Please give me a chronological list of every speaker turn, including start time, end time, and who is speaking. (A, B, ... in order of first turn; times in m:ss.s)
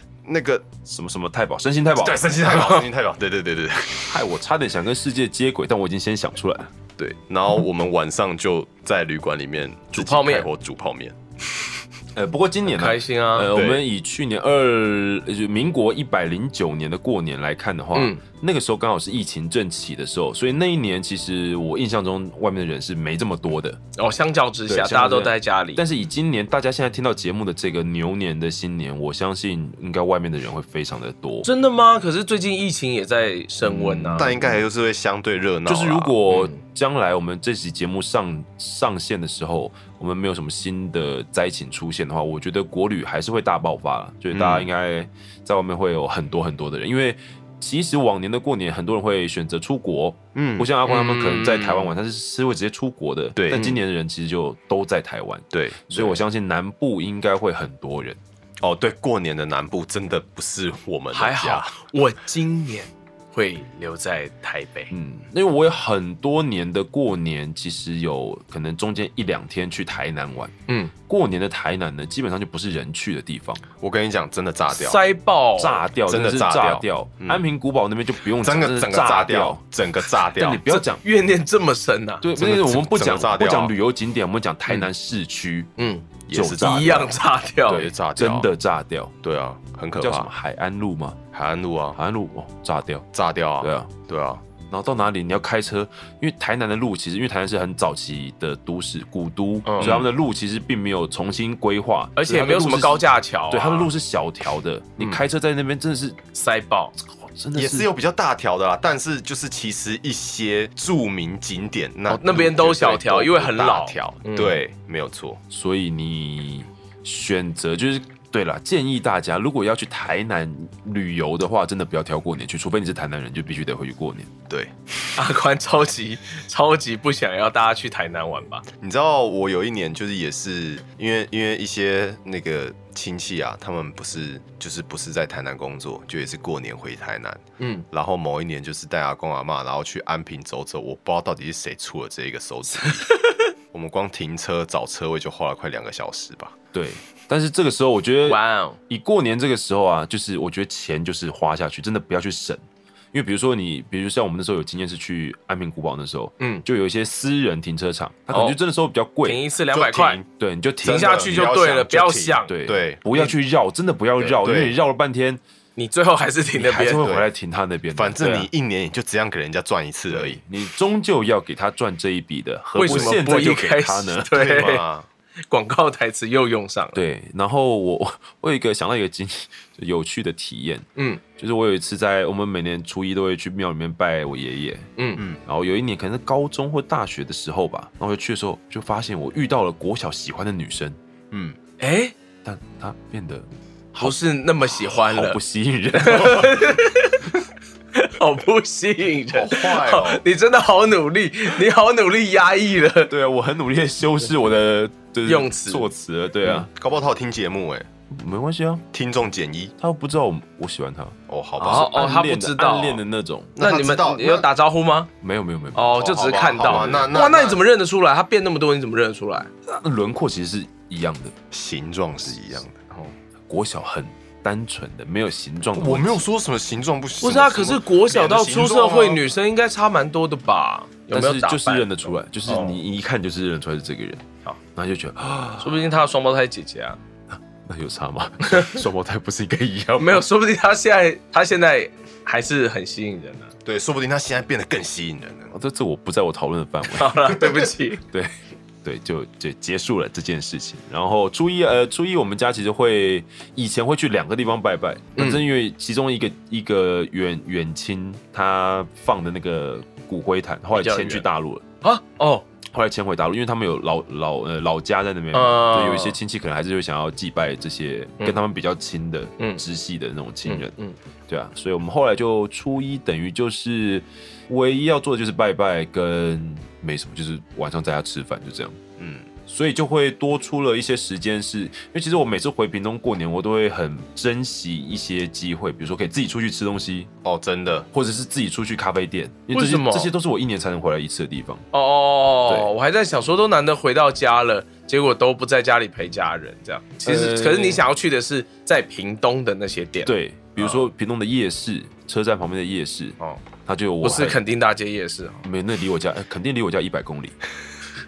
0:00.2-0:00.6 A
0:00.9-0:02.7 B
0:02.0-0:04.1 A
0:04.1-0:06.7 B
0:07.0-0:11.2 A
0:09.9-0:10.5 C
0:12.1-0:23.8 B
0:12.7-0:13.5 C
0:13.5-0:13.8 A
0:17.9-0:18.2 C
0:23.9-0:25.8 C
0:24.7-0:31.5 B
0:31.4-0:34.3 C
0:33.6-0:34.6 B
0:34.1-0:36.2 A
0:35.6-0:58.2 B
0:36.3-0:36.6 C
0:44.3-0:44.7 A
0:50.3-0:50.7 A
0:50.8-0:51.9 C
0:53.4-0:53.8 A
0:55.5-0:56.2 A
0:58.6-1:01.8 A
1:01.1-1:04.9 C
1:04.9-1:10.5 B
1:10.7-1:10.9 C
1:11.1-1:13.6 B
1:13.8-1:15.0 A
1:14.7-1:15.8 C
1:15.6-1:19.6 B
1:16.1-1:17.4 A
1:18.4-1:20.6 A
1:20.2-1:21.0 B
1:20.7-1:22.3 C
1:22.2-1:25.7 B
1:22.4-1:23.7 A
1:25.8-1:27.8 C
1:26.3-1:28.5 A
1:26.3-1:27.0 B
1:27.7-1:29.1 B
1:29.2-1:30.3 A
1:30.0-1:31.2 B
1:31.3-1:32.0 A
1:31.9-1:33.0 B
1:33.1-1:34.4 A
1:33.6-1:33.9 B
1:34.7-1:46.2 B
1:39.6-1:40.0 C
1:39.8-1:40.1 A
1:42.2-1:43.9 C
1:46.3-1:46.9 C
1:47.0-1:47.9 B
1:47.5-1:55.4 A
1:52.1-1:54.6 C
1:55.5-2:04.3 B
2:05.2-2:08.6 C
2:08.8-2:23.1 A
2:17.6-2:17.8 C
2:22.8-2:23.4 C
2:23.7-2:26.6 A
2:26.7-2:32.6 B
2:28.2-2:28.8 C
2:33.1-2:39.4 B
2:36.4-2:36.6 C
2:38.3-2:38.6 C
2:39.2-2:40.2 C
2:39.7-2:40.3 A
2:40.4-2:41.5 B
2:40.8-2:43.1 A
2:40.8-2:42.5 C
2:42.5-2:45.4 B
2:44.2-2:44.8 A
2:45.8-2:47.0 C
2:46.6-2:48.5 B
2:46.9-2:47.3 A
2:47.9-2:50.4 A
2:50.1-2:54.4 B
2:52.7-2:54.8 C
2:52.9-2:53.2 A
2:54.3-2:55.1 A
2:55.5-2:57.0 C
2:56.9-3:00.8 B
3:01.0-3:01.2 C
3:01.4-3:04.9 B
3:05.0-3:05.2 C
3:05.4-3:11.0 B
3:11.3-3:11.6 A
3:11.8-3:12.1 C
3:12.4-3:14.2 B
3:14.0-3:15.4 C
3:14.7-3:16.7 B
3:15.9-3:17.3 C
3:17.9-3:23.1 C
3:19.3-3:20.2 A
3:23.1-3:26.7 B
3:25.2-3:25.9 C
3:26.6-3:27.9 A
3:28.1-3:28.8 B
3:28.9-3:29.7 A
3:29.8-3:33.5 B
3:31.3-3:31.9 A
3:31.6-3:33.0 C
3:33.6-3:34.5 A
3:33.6-3:35.1 C
3:35.2-3:36.0 B
3:35.7-3:39.5 C
3:35.9-3:37.6 A
3:36.6-3:37.1 B
3:39.6-3:41.3 B
3:41.5-3:42.9 A
3:43.5-3:46.2 B
3:45.7-3:49.2 A
3:47.2-3:52.8 C
3:51.1-3:55.9 B
3:55.6-3:57.0 C
3:57.6-4:00.2 B
3:58.5-3:58.8 C
4:00.0-4:03.5 C
4:03.6-4:05.5 A
4:05.5-4:07.5 B
4:06.9-4:08.0 C
4:08.1-4:21.7 B
4:15.2-4:15.4 C
4:20.7-4:21.2 C
4:21.8-4:22.5 C
4:22.7-4:30.7 B
4:25.3-4:26.2 C
4:30.4-4:31.0 C
4:31.3-4:38.8 B
4:39.0-4:39.3 A
4:39.5-4:47.1 B
4:47.2-4:47.9 A
4:47.9-4:51.6 B
4:49.5-4:50.1 C
4:51.7-5:00.8 C
4:57.0-4:57.8 B
5:00.0-5:04.4 B
5:04.0-5:05.4 C
5:05.4-5:07.4 B